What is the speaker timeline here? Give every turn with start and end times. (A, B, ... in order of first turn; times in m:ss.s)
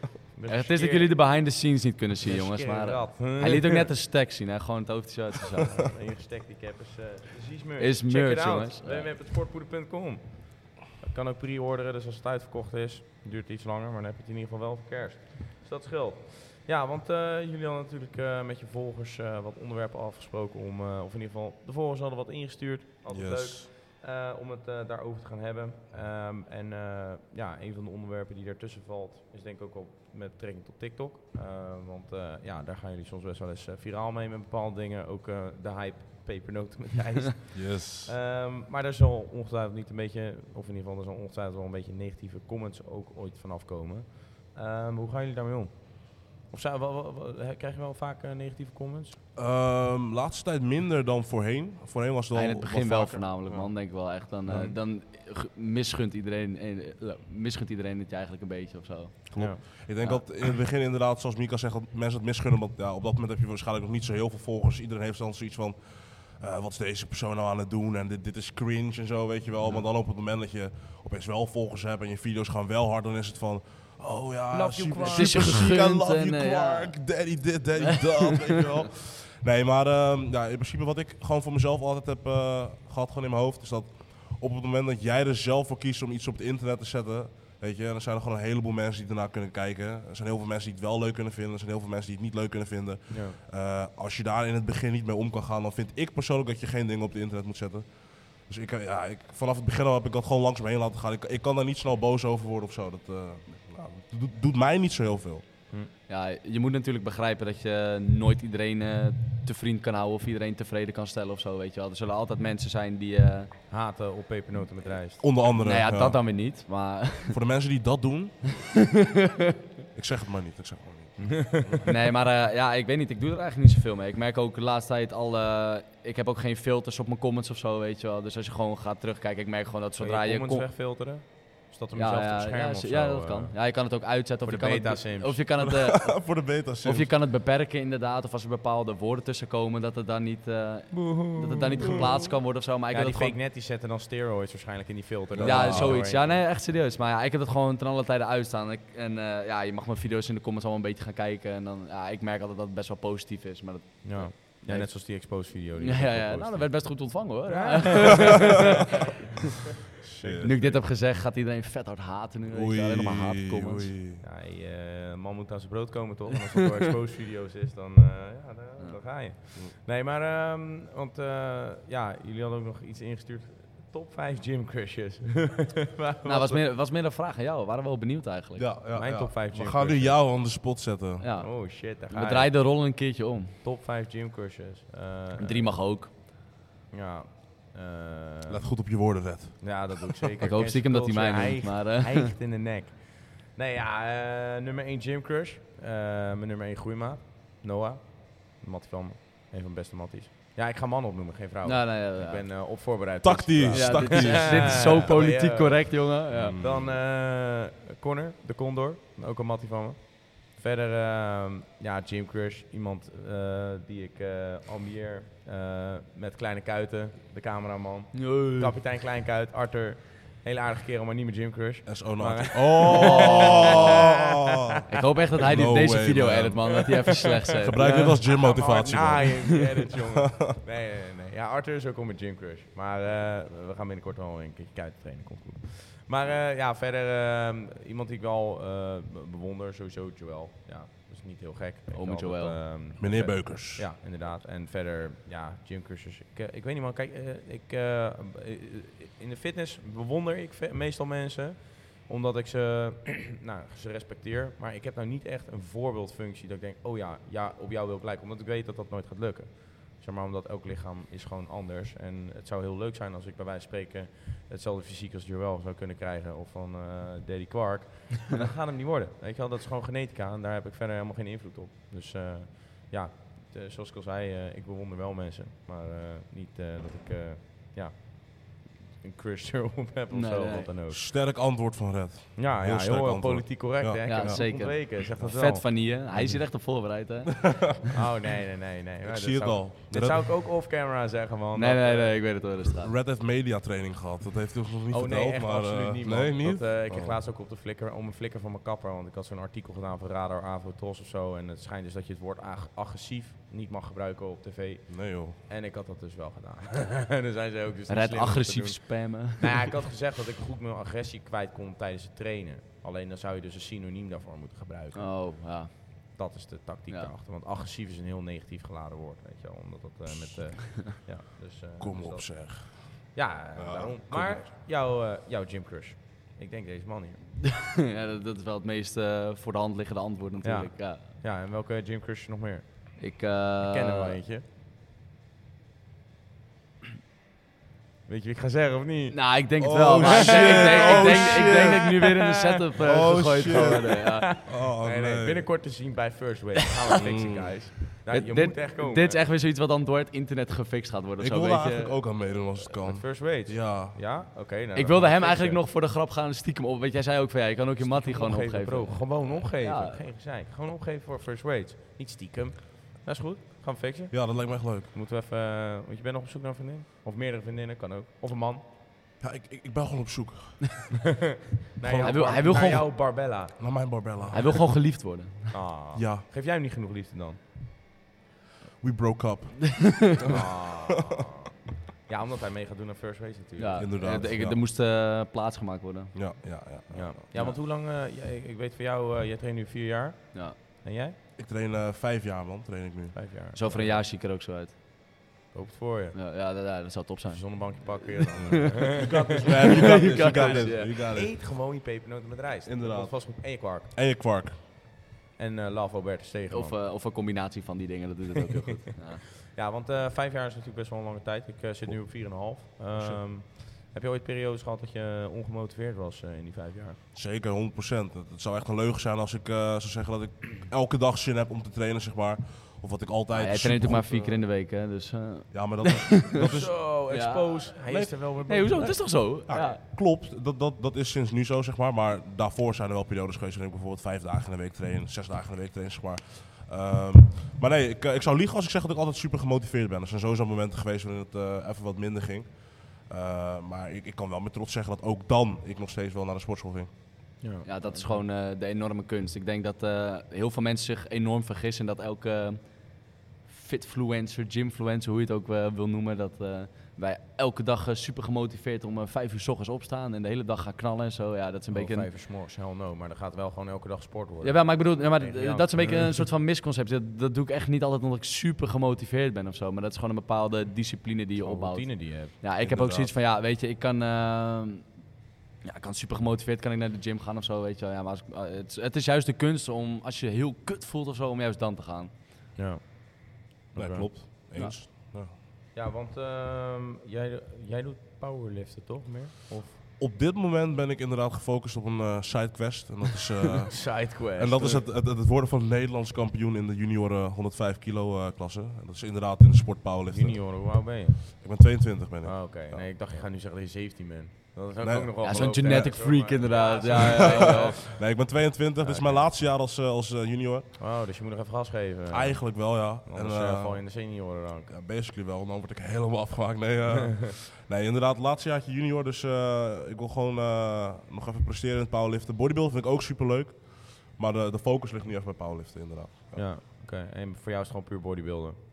0:00.3-0:01.2 A
0:00.5-0:05.8 B
0:02.2-0:03.9 A
0:05.7-0:49.2 A
0:07.8-0:09.1 B
0:23.1-0:23.7 C
0:37.5-0:38.1 C
0:49.4-0:53.5 C
0:52.3-1:00.3 B
0:54.5-0:54.8 A
0:59.3-1:45.4 C
0:59.4-0:59.6 A
1:14.5-1:15.7 A
1:15.0-1:16.9 B
1:17.8-1:18.2 B
1:33.1-1:33.4 A
1:46.1-1:53.5 B
1:53.7-1:55.4 A
1:55.2-1:56.2 C
1:55.5-1:57.4 B
1:57.3-1:58.5 C
1:58.9-1:59.5 B
1:59.9-2:01.8 C
2:01.2-2:01.8 A
2:01.8-2:10.7 B
2:10.0-2:15.4 A
2:11.9-2:23.4 B
2:15.6-2:17.1 C
2:20.9-2:22.3 A
2:22.9-2:26.4 A
2:25.3-2:26.0 C
2:25.4-2:35.0 B
2:34.0-2:40.8 A
2:35.8-2:38.9 B
2:40.2-2:40.5 C
2:40.4-2:43.9 B
2:42.5-2:44.2 C
2:44.2-2:56.6 A
2:56.2-2:58.7 B
2:58.6-3:01.2 C
2:58.9-3:00.2 A
3:01.2-3:03.6 B
3:01.4-3:03.0 A
3:03.6-3:05.8 A
3:05.4-3:06.1 B
3:06.9-3:08.6 A
3:08.5-3:10.2 C
3:09.6-3:44.4 A
3:10.4-3:12.3 B
3:21.6-3:22.4 B
3:23.2-3:25.1 C
3:23.7-3:26.6 B
3:26.3-3:27.0 C
3:38.1-3:38.7 B
3:41.8-3:44.8 C
3:42.9-3:43.8 B
3:44.9-3:48.4 B
3:45.4-3:46.8 C
3:46.7-4:41.0 A
3:47.6-3:49.8 C
3:48.9-3:49.4 B
4:01.9-4:02.6 B
4:03.0-4:03.8 C
4:40.1-4:40.7 B
4:40.9-4:45.3 C
4:42.4-4:45.8 A
4:44.0-4:47.8 B
4:46.1-4:46.5 C
4:47.5-4:47.9 C
4:47.9-4:52.5 A
4:49.0-4:50.2 C
4:51.5-4:52.9 B
4:52.8-4:57.2 C
4:54.9-5:27.2 A
5:04.9-5:05.4 C
5:07.9-5:09.7 B
5:14.9-5:15.8 B
5:20.1-5:20.4 C
5:21.8-5:24.5 C
5:27.4-5:31.1 B
5:30.4-5:33.0 A
5:33.0-5:34.2 B
5:33.6-5:34.4 A
5:38.1-5:39.4 A
5:39.1-5:44.3 B
5:39.6-5:41.9 C
5:40.0-5:42.7 A
5:42.8-5:45.5 C
5:43.2-5:49.2 A
5:46.9-5:47.6 C
5:48.1-5:52.0 B
5:51.2-5:54.0 C
5:52.7-5:55.6 A
5:54.7-6:00.0 B
5:57.8-6:08.6 A
6:04.1-6:04.9 C
6:09.2-6:11.0 C
6:11.7-6:14.0 A
6:11.8-6:14.5 C
6:12.0-6:12.8 B
6:14.3-6:15.6 B
6:15.5-6:17.4 A
6:15.9-6:16.2 C
6:18.8-6:20.6 C
6:20.3-6:21.5 A
6:22.0-6:24.4 A
6:23.6-6:26.1 B
6:23.8-6:24.6 C
6:26.1-6:27.2 C
6:26.9-6:31.2 A
6:31.4-6:33.2 C
6:33.1-6:34.0 A
6:33.5-6:34.8 B
6:35.5-6:36.2 A
6:36.1-6:39.0 B
6:37.3-6:43.9 A
6:38.9-6:41.3 C
6:39.7-6:41.0 B
6:42.6-6:44.6 C
6:45.4-6:46.8 A
6:46.5-6:49.2 B
6:49.5-6:57.0 A
6:52.9-6:53.2 C
6:57.1-7:04.4 C
7:03.3-7:07.8 B
7:05.5-7:06.8 C
7:06.4-7:09.7 A
7:07.9-7:08.2 C
7:08.4-7:09.8 B
7:08.8-7:26.9 C
7:27.4-7:28.2 A
7:27.6-7:32.8 B
7:33.4-7:42.1 B
7:41.7-7:46.2 A
7:44.4-7:54.9 B
7:51.4-7:52.4 A
7:52.6-7:53.1 C
7:55.6-8:02.1 B
8:02.6-8:04.2 A
8:03.7-8:05.3 C
8:05.7-8:09.8 A
8:10.0-8:22.9 C
8:13.7-8:14.8 A
8:20.1-8:21.4 A
8:22.2-8:28.2 A
8:24.8-8:26.0 C
8:25.2-8:27.8 B
8:26.9-8:30.8 C
8:28.8-8:29.3 A
8:30.8-8:34.7 A
8:32.1-8:33.8 C
8:34.7-8:46.5 C
8:46.3-8:48.6 A